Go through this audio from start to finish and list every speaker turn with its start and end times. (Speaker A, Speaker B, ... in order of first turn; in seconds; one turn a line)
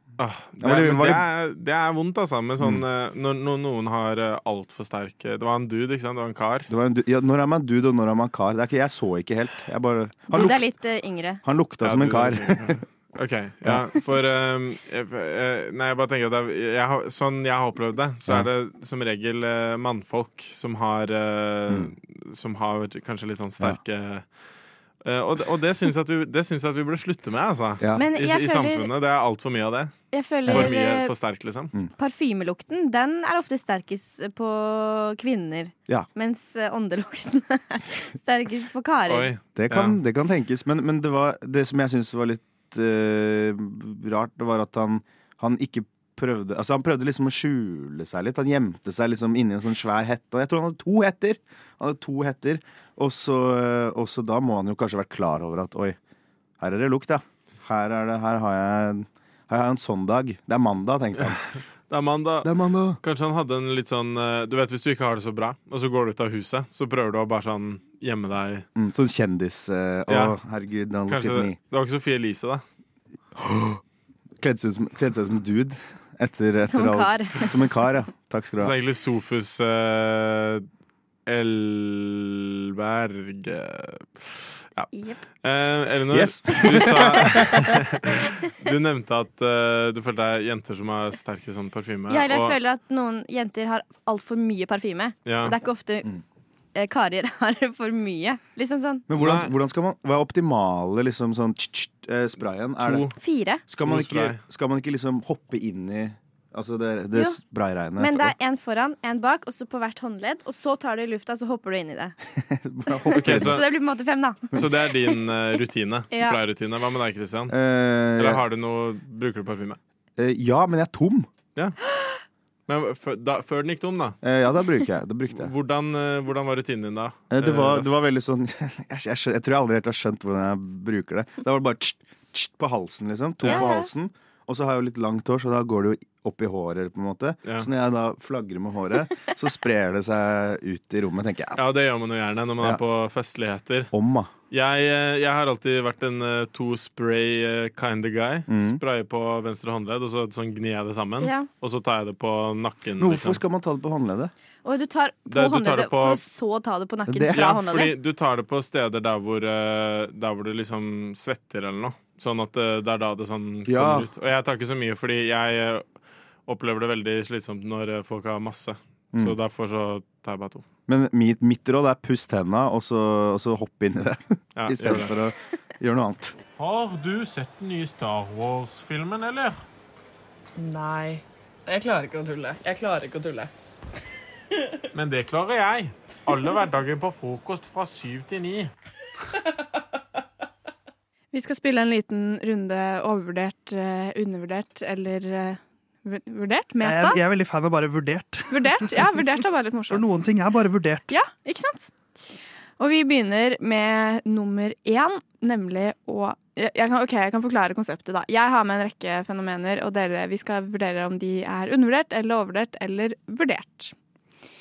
Speaker A: 0.2-6.7
Speaker B: 0.6-1.2
Speaker B: 6.7-10.6
Speaker C: 10.3-11.4
Speaker B: 11.4-12.8
Speaker A: 11.8-24.3
Speaker A: 25.0-31.7
Speaker C: 27.9-28.9
Speaker C: 30.1-31.1
Speaker C: 32.0-39.3
Speaker A: 39.1-40.0
Speaker B: 39.5-56.0
Speaker B: 56.6-61.4
Speaker A: 61.9-68.7
Speaker B: 62.4-63.0
Speaker B: 68.8-71.5
Speaker A: 70.1-70.3
Speaker A: 71.1-72.6
Speaker B: 73.4-73.8
Speaker B: 74.4-78.7
Speaker C: 76.7-77.5
Speaker A: 78.6-80.7
Speaker A: 81.3-84.9
Speaker C: 84.9-85.2
Speaker A: 85.4-92.5
Speaker B: 86.1-87.7
Speaker C: 92.1-96.1
Speaker A: 95.2-95.5
Speaker C: 96.7-99.0
Speaker B: 99.1-103.1
Speaker A: 99.2-99.5
Speaker A: 102.8-103.1
Speaker C: 103.2-103.6
Speaker B: 103.7-108.3
Speaker A: 103.8-104.4
Speaker C: 108.0-112.2
Speaker B: 112.3-113.6
Speaker C: 113.1-114.5
Speaker A: 113.2-113.6
Speaker A: 114.5-117.5
Speaker C: 116.1-116.4
Speaker B: 117.5-118.4
Speaker A: 118.2-119.8
Speaker B: 120.2-121.3
Speaker A: 122.7-124.2
Speaker B: 124.2-125.5
Speaker A: 125.3-127.9
Speaker B: 127.3-141.6
Speaker A: 133.4-133.7
Speaker C: 133.5-133.9
Speaker A: 141.6-143.9
Speaker B: 143.9-144.3
Speaker A: 144.5-153.4
Speaker B: 148.5-148.8
Speaker C: 151.2-151.5
Speaker B: 153.0-154.3
Speaker C: 154.6-157.9
Speaker A: 155.3-156.2
Speaker B: 157.1-157.6
Speaker A: 157.3-165.9
Speaker B: 163.7-164.1
Speaker A: 166.5-170.6
Speaker B: 170.9-176.3
Speaker A: 174.6-175.1
Speaker A: 176.6-179.6
Speaker D: 180.6-183.5
Speaker A: 184.9-188.7
Speaker E: 191.3-197.2
Speaker F: 196.8-199.1
Speaker E: 198.5-200.2
Speaker F: 199.9-201.1
Speaker E: 201.1-201.9
Speaker E: 202.8-213.9